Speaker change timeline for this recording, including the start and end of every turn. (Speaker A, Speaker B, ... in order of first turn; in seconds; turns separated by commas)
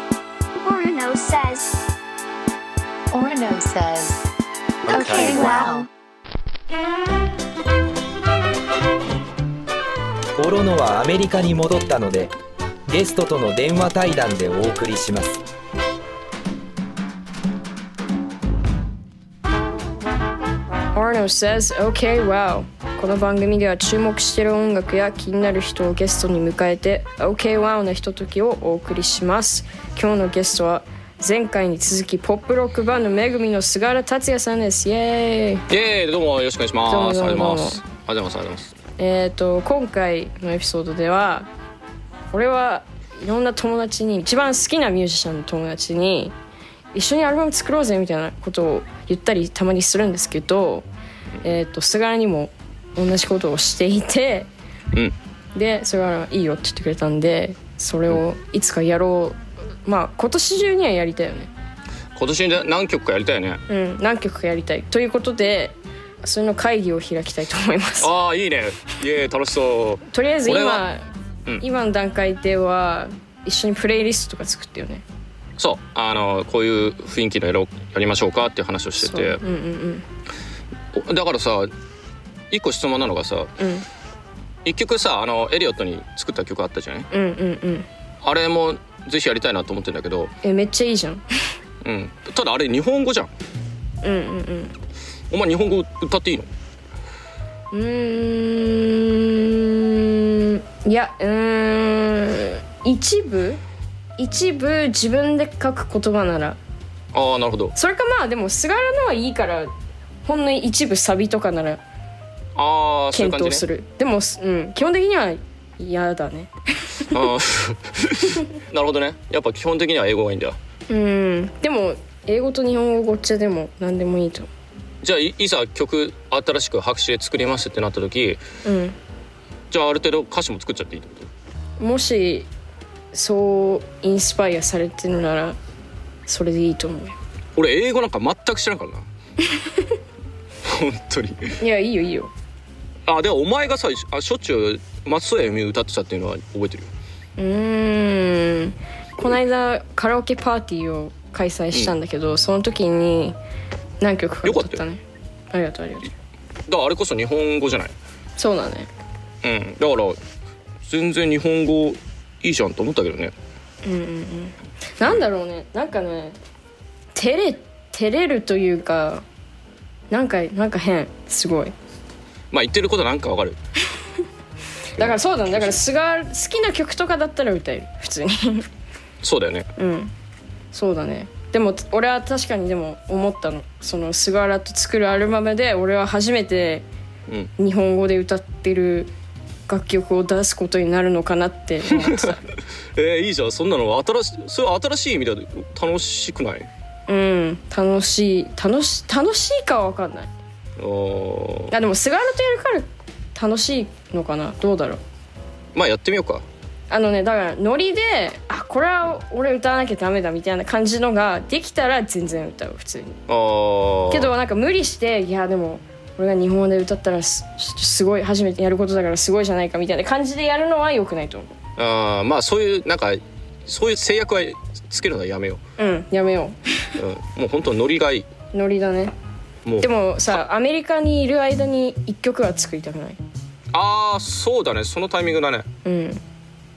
Speaker A: 0.6-1.8, Speaker B: 3.1-4.3, Speaker B: 4.9-5.9, Speaker A: 4.9-5.8, Speaker C: 10.4-12.3, Speaker C: 12.9-15.4, Speaker D: 20.9-35.6, Speaker E: 35.7-38.8, Speaker D: 36.9-37.8, Speaker D: 39.0-41.5, Speaker D: 42.3-46.4, Speaker D: 46.9-50.9, Speaker D: 51.4-54.5, Speaker D: 55.5-61.5, Speaker E: 62.2-63.6, Speaker D: 63.7-68.1, Speaker E: 68.0-70.8, Speaker D: 70.1-71.0, Speaker D: 71.6-75.0, Speaker E: 75.6-79.4, Speaker D: 79.0-80.0, Speaker E: 80.9-81.7, Speaker E: 82.5-83.5, Speaker D: 83.6-83.9, Speaker E: 84.7-87.1, Speaker D: 87.1-87.9, Speaker E: 88.2-90.3, Speaker D: 90.4-91.2, Speaker E: 91.8-93.3, Speaker D: 94.0-94.7, Speaker E: 95.3-96.5, Speaker D: 97.7-103.6, Speaker D: 104.2-106.6, Speaker E: 107.1-107.7, Speaker D: 107.8-109.7, Speaker D: 110.2-111.8, Speaker E: 112.6-113.7, Speaker D: 113.1-117.2, Speaker E: 117.1-120.6, Speaker D: 120.9-124.5, Speaker E: 125.0-128.4, Speaker D: 128.6-129.0, Speaker E: 129.7-131.3, Speaker D: 131.8-132.5, Speaker D: 133.1-135.6, Speaker D: 136.3-137.1, Speaker E: 137.6-139.1, Speaker E: 140.7-141.5, Speaker D: 141.6-142.3, Speaker E: 143.1-146.9, Speaker D: 147.4-153.4, Speaker D: 154.0-156.1, Speaker E: 154.4-154.8, Speaker E: 156.7-157.9, Speaker D: 158.4-158.9, Speaker E: 159.4-160.2, Speaker E: 160.8-163.3, Speaker D: 163.8-166.4, Speaker D: 167.1-169.2, Speaker D: 170.1-171.7, Speaker E: 172.5-173.6, Speaker E: 175.0-175.8, Speaker D: 175.0-178.7, Speaker E: 179.2-179.7, Speaker D: 179.8-180.1, Speaker D: 180.7-186.8, Speaker D: 187.6-189.1, Speaker D: 189.7-192.5, Speaker E: 191.9-192.3, Speaker E: 192.9-196.7, Speaker D: 197.1-200.3, Speaker E: 200.8-201.7, Speaker D: 201.7-205.0, Speaker E: 205.7-206.4, Speaker D: 206.9-213.2, Speaker E: 213.3-214.3, Speaker D: 214.1-221.5, Speaker E: 221.8-225.6, Speaker D: 225.8-226.9, Speaker E: 227.0-228.3, Speaker D: 228.5-229.1, Speaker E: 229.7-230.4, Speaker D: 229.8-233.2, Speaker E: 233.7-235.7, Speaker D: 235.8-236.2